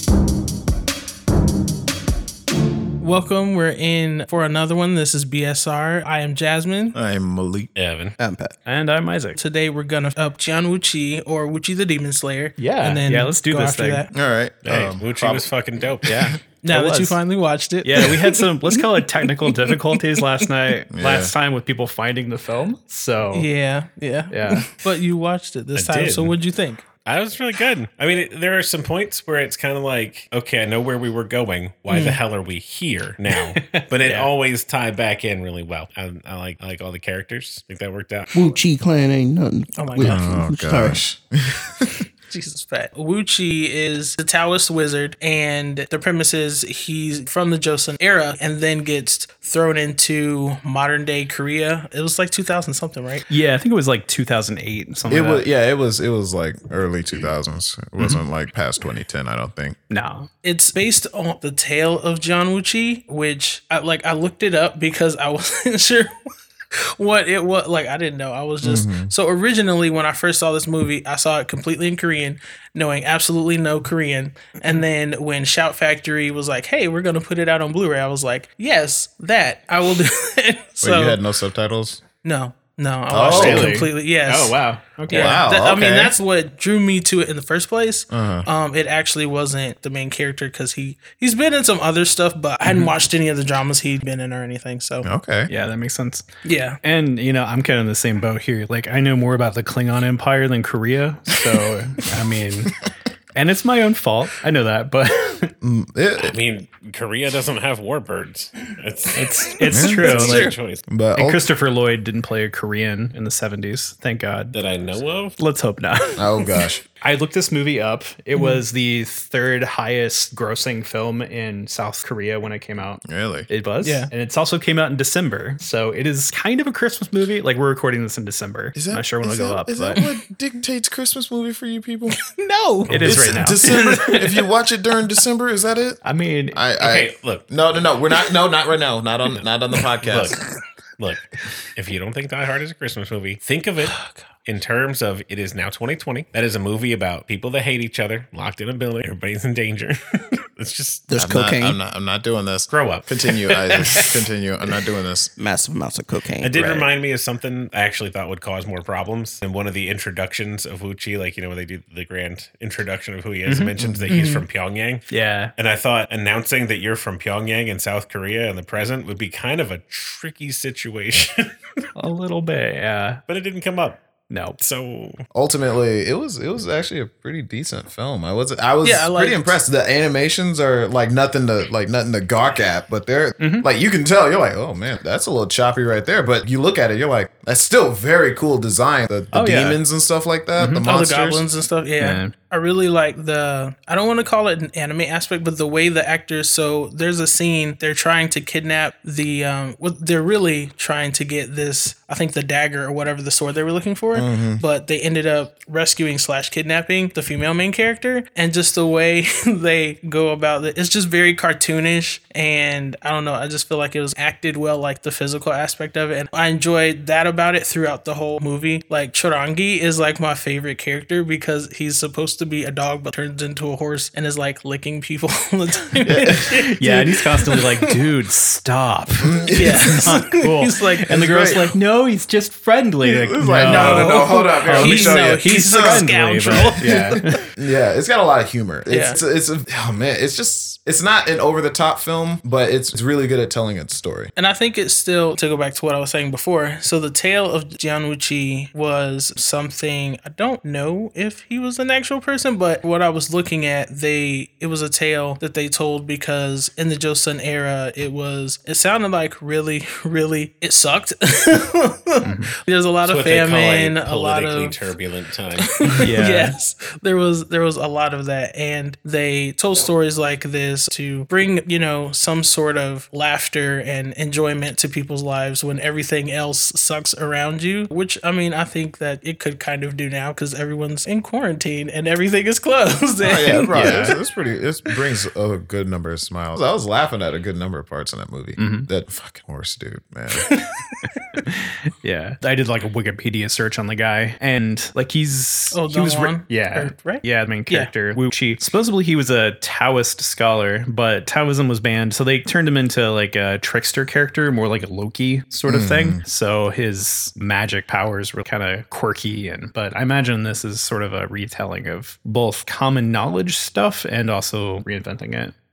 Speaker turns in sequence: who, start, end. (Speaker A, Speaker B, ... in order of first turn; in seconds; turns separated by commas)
Speaker A: 3.0-7.0, Speaker B: 6.9-7.7, Speaker C: 7.8-8.1, Speaker D: 8.2-8.5, Speaker E: 8.7-9.4, Speaker A: 9.3-14.1, Speaker E: 12.6-14.0, Speaker B: 14.1-15.5, Speaker C: 14.6-16.4, Speaker E: 16.0-17.2, Speaker A: 16.6-18.8, Speaker E: 17.8-23.5, Speaker A: 19.4-20.2, Speaker B: 20.9-21.3, Speaker A: 23.3-26.8, Speaker E: 24.3-24.7, Speaker C: 25.7-26.4, Speaker C: 27.0-38.3, Speaker A: 31.9-32.2, Speaker E: 33.5-34.3, Speaker D: 38.3-41.0, Speaker A: 39.7-40.2, Speaker B: 40.0-41.9, Speaker A: 42.3-53.3, Speaker E: 53.3-55.5, Speaker B: 55.1-59.8, Speaker E: 58.0-58.2, Speaker E: 59.9-60.3, Speaker A: 60.4-66.1, Speaker A: 66.7-81.2, Speaker B: 68.6-69.1, Speaker B: 80.8-82.0, Speaker A: 82.2-95.1, Speaker B: 83.1-83.8, Speaker E: 83.3-85.4, Speaker B: 85.1-86.1, Speaker B: 88.1-88.5, Speaker B: 95.0-95.5, Speaker E: 95.5-96.2, Speaker A: 96.4-96.8, Speaker E: 96.8-102.7, Speaker E: 103.3-105.5, Speaker B: 105.6-106.3, Speaker C: 106.2-110.8, Speaker E: 109.1-110.5, Speaker B: 109.7-111.4, Speaker E: 111.1-116.4, Speaker C: 114.5-115.3, Speaker B: 116.2-116.8, Speaker E: 117.0-130.0, Speaker A: 118.3-118.6, Speaker B: 123.0-123.5, Speaker A: 123.8-124.1, Speaker B: 128.7-132.2, Speaker A: 132.1-133.0, Speaker C: 132.9-133.3, Speaker E: 132.9-133.7, Speaker B: 133.0-140.4, Speaker A: 133.6-134.2, Speaker E: 136.0-136.6, Speaker C: 136.8-137.5, Speaker C: 140.1-140.4, Speaker C: 141.0-149.9, Speaker A: 143.8-144.2, Speaker C: 150.6-151.0, Speaker D: 151.1-151.8, Speaker B: 151.2-155.3, Speaker C: 152.7-153.3, Speaker D: 155.4-156.9, Speaker C: 156.4-171.3, Speaker E: 163.5-163.7, Speaker A: 164.1-164.4, Speaker E: 165.1-165.5, Speaker E: 171.9-173.2, Speaker C: 173.3-174.0, Speaker E: 174.3-174.6, Speaker C: 174.6-175.2, Speaker B: 175.3-191.4, Speaker A: 178.8-179.6, Speaker E: 183.4-183.7, Speaker E: 189.3-189.8, Speaker E: 190.6-190.8, Speaker A: 190.8-227.9, Speaker E: 192.0-192.3, Speaker B: 204.1-204.6, Speaker B: 226.0-226.7, Speaker E: 226.4-237.4, Speaker B: 229.2-230.2, Speaker A: 229.5-231.1, Speaker B: 231.1-231.8, Speaker B: 233.0-244.3, Speaker A: 233.6-237.1, Speaker A: 238.9-239.2, Speaker A: 244.3-265.0, Speaker E: 262.2-262.5, Speaker C: 263.0-265.7, Speaker A: 265.6-284.1, Speaker E: 265.9-266.6, Speaker B: 283.2-290.5, Speaker E: 283.7-284.1, Speaker E: 288.6-288.9, Speaker A: 290.4-291.1, Speaker E: 291.4-315.5, Speaker A: 295.7-297.9, Speaker B: 305.6-306.2